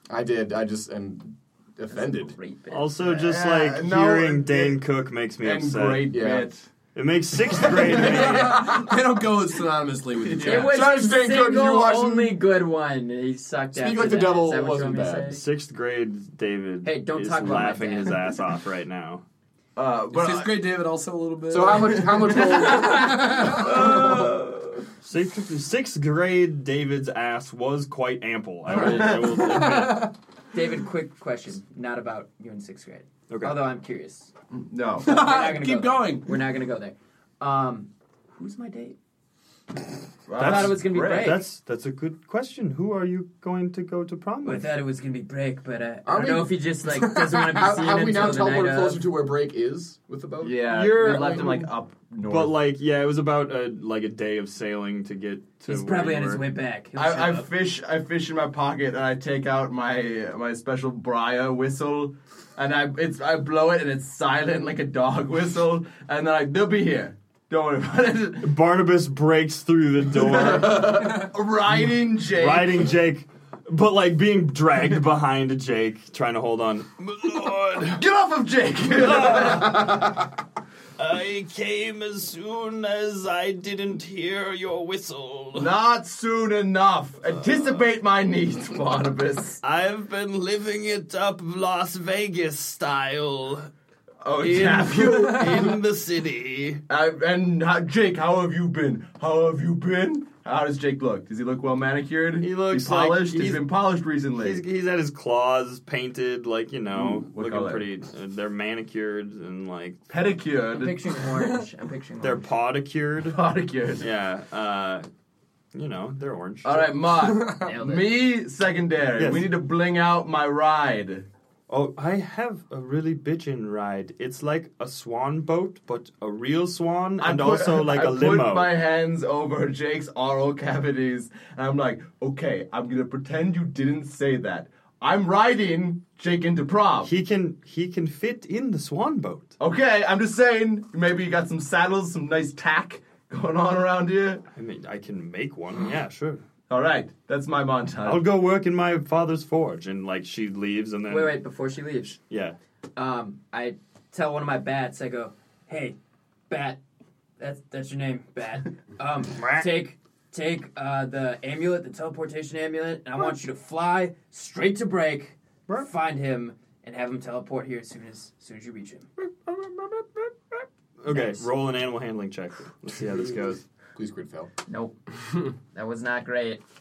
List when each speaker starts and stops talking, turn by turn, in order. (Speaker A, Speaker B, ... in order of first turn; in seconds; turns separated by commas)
Speaker A: 0.1-2.3, Speaker B: 1.9-2.9, Speaker C: 2.7-6.1, Speaker D: 3.0-4.8, Speaker D: 5.4-6.6, Speaker A: 6.1-6.5, Speaker C: 7.0-8.8, Speaker D: 7.6-8.4, Speaker E: 7.8-10.8, Speaker D: 10.2-10.7, Speaker B: 10.4-15.4, Speaker A: 10.5-12.4, Speaker A: 13.7-15.4, Speaker C: 15.3-19.2, Speaker B: 16.8-18.2, Speaker D: 19.8-20.8, Speaker E: 20.1-23.7, Speaker A: 21.5-24.2, Speaker C: 23.4-24.5, Speaker C: 25.0-30.1, Speaker D: 28.7-29.4, Speaker E: 29.4-30.1, Speaker B: 30.5-34.3, Speaker C: 33.3-33.6, Speaker D: 34.5-35.2, Speaker E: 35.0-36.4, Speaker B: 35.0-39.0, Speaker D: 40.3-41.4, Speaker B: 40.4-41.5, Speaker C: 40.4-44.7, Speaker B: 44.4-49.1, Speaker A: 46.1-51.5, Speaker D: 50.4-52.5, Speaker C: 50.7-51.7, Speaker C: 52.3-56.4, Speaker B: 55.7-57.5, Speaker D: 57.0-68.5, Speaker C: 68.4-78.0, Speaker D: 70.1-72.9, Speaker D: 78.0-80.0, Speaker C: 79.0-80.2, Speaker C: 81.0-85.7, Speaker D: 85.6-89.6, Speaker C: 89.6-93.7, Speaker D: 94.2-95.8, Speaker C: 94.4-96.8, Speaker D: 96.9-104.6, Speaker C: 102.4-103.6, Speaker C: 104.4-110.0, Speaker D: 106.9-107.8, Speaker D: 110.1-111.0, Speaker B: 110.7-112.5, Speaker C: 112.2-113.4, Speaker D: 113.3-114.1, Speaker C: 114.0-115.1, Speaker C: 115.7-116.9, Speaker D: 116.6-121.3, Speaker B: 117.6-118.2, Speaker C: 119.2-119.5, Speaker C: 121.7-128.7, Speaker D: 127.2-137.1, Speaker C: 137.0-139.5, Speaker D: 139.6-144.4, Speaker C: 144.6-146.4, Speaker D: 146.7-148.2, Speaker C: 148.1-151.4, Speaker B: 151.1-152.2, Speaker C: 152.3-152.6, Speaker B: 153.0-156.0, Speaker B: 156.5-156.8, Speaker B: 157.4-169.1, Speaker C: 159.4-159.7, Speaker C: 171.0-173.6, Speaker B: 171.1-171.5, Speaker A: 174.0-174.5, Speaker B: 174.7-174.9, Speaker B: 175.7-176.6